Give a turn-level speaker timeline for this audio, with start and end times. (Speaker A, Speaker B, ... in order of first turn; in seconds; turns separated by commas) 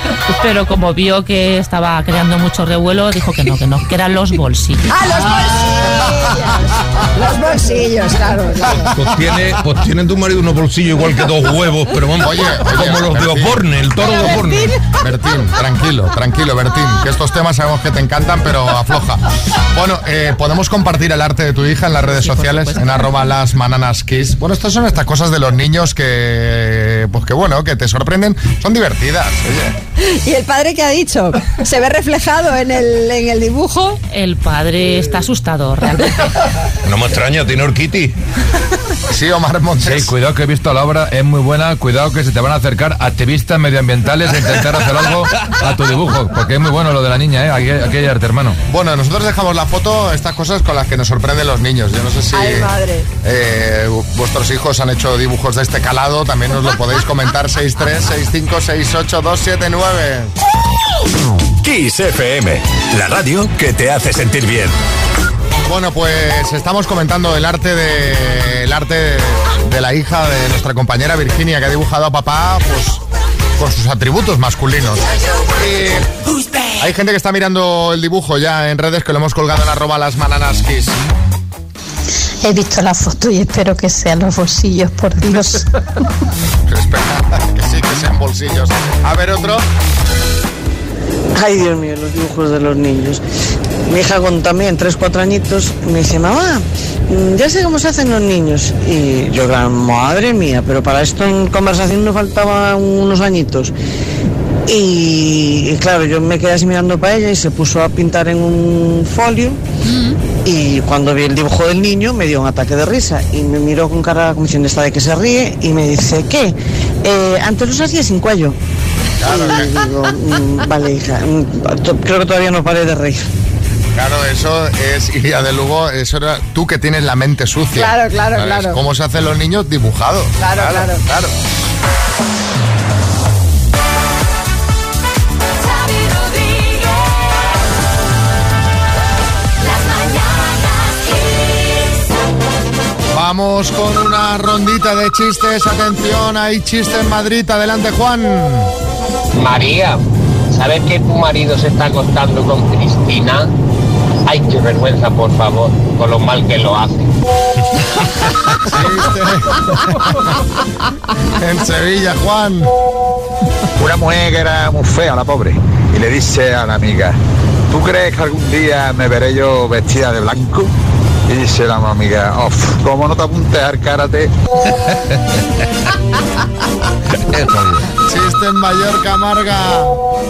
Speaker A: 0.3-5.0, Speaker B: 4.9-8.9, Speaker C: 8.8-14.7, Speaker D: 12.2-14.3, Speaker B: 14.0-14.7, Speaker D: 14.9-29.7, Speaker A: 22.1-23.0, Speaker B: 30.0-34.0, Speaker A: 34.1-36.3, Speaker C: 36.9-38.1, Speaker D: 39.1-40.1, Speaker E: 40.0-48.6, Speaker D: 48.7-52.7, Speaker B: 52.3-53.0, Speaker D: 53.2-60.3, Speaker F: 61.6-64.8, Speaker D: 65.7-73.0, Speaker D: 73.6-75.0, Speaker D: 75.6-76.1, Speaker D: 76.8-81.0, Speaker G: 82.4-85.7, Speaker D: 86.7-89.7, Speaker H: 91.3-93.2, Speaker H: 93.9-103.7, Speaker H: 104.7-109.6, Speaker H: 110.5-118.6, Speaker D: 119.2-119.8, Speaker H: 119.3-123.2, Speaker D: 124.0-131.3, Speaker B: 127.8-128.8, Speaker B: 130.4-131.0, Speaker D: 143.1-148.7, Speaker I: 149.3-150.0, Speaker I: 150.5-153.5, Speaker I: 154.3-157.1, Speaker D: 158.7-160.2, Speaker D: 161.4-162.7, Speaker J: 163.8-167.2, Speaker J: 167.7-170.7, Speaker J: 171.3-174.3, Speaker D: 178.1-179.9